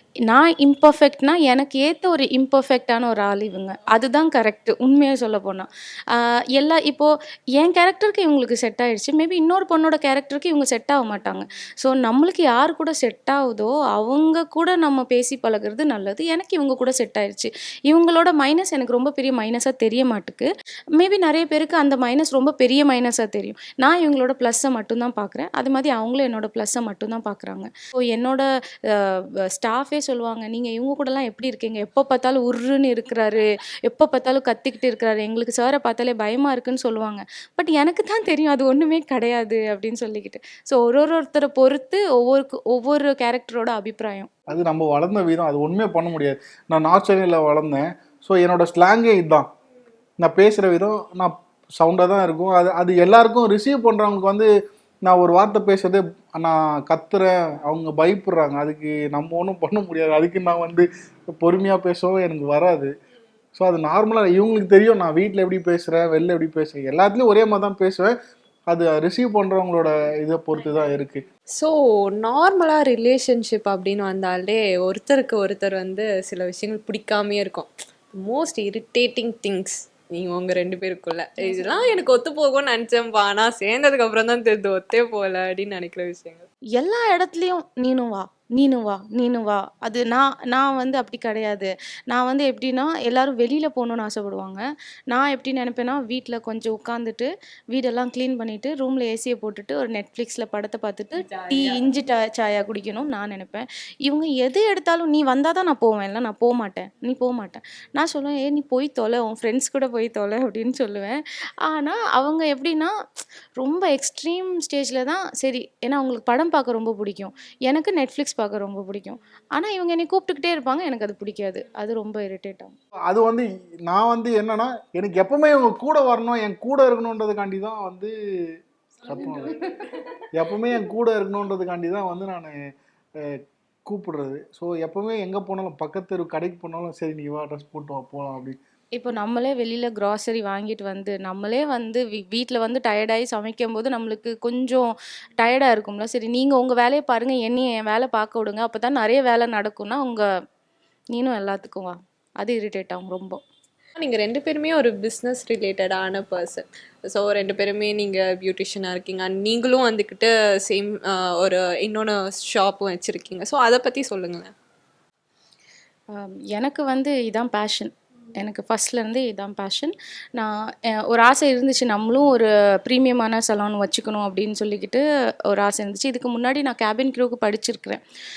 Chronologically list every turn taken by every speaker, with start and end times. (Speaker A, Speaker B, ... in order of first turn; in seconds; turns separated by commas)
Speaker A: 0.3-44.3, Speaker B: 44.5-49.5, Speaker B: 50.2-54.5, Speaker B: 55.0-60.9, Speaker B: 61.4-62.9, Speaker B: 63.5-68.1, Speaker B: 68.7-71.2, Speaker C: 71.5-86.5, Speaker A: 81.4-82.1, Speaker A: 86.8-112.9, Speaker A: 113.6-122.7, Speaker B: 123.0-128.1, Speaker B: 129.0-129.6, Speaker B: 130.3-132.6, Speaker B: 133.2-138.6, Speaker A: 138.9-150.2, Speaker A: 151.1-153.4, Speaker C: 154.0-164.5, Speaker A: 166.1-178.0